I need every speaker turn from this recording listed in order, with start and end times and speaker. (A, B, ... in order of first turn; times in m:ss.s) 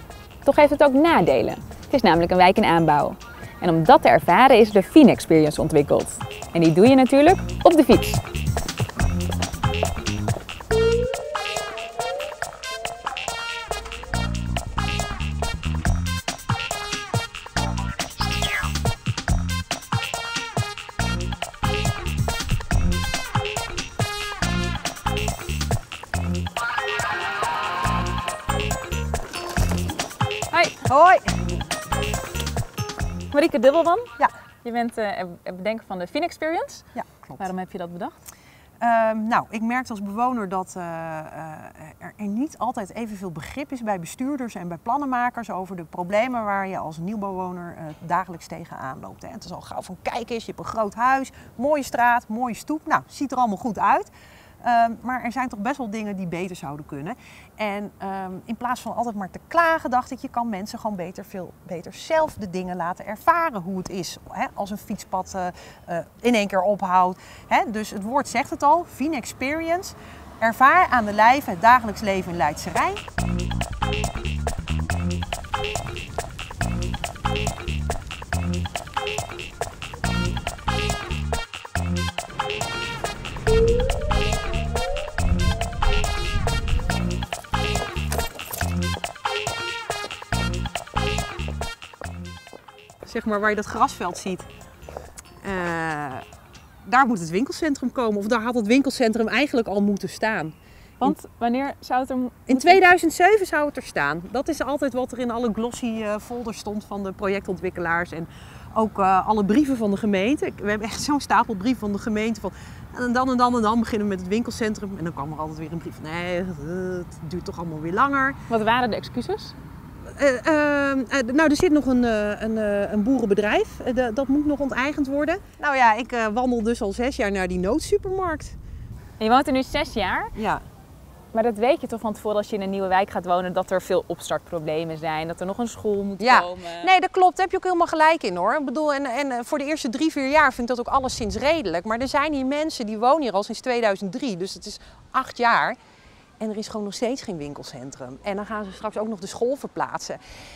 0:00.4-0:08.2 A
0:30.5-0:30.8 A
0:30.8-0:31.4 B
0:33.3-0:34.1 A
0:34.6-0:36.9 A
0:36.9-0:37.5 B
0:37.4-0:38.2 A
0:38.8-0:54.1 B
0:54.6-1:13.0 B
1:33.0-1:34.5 B
1:35.4-1:36.2 B
1:36.8-1:41.2 B
1:41.0-1:42.8 A
1:42.5-1:58.4 B
1:58.5-1:59.5 A
2:00.0-2:08.6 B
2:09.2-2:10.3 A
2:10.4-2:10.6 B
2:11.3-2:16.9 A
2:16.2-2:25.8 B
2:26.4-2:30.2 B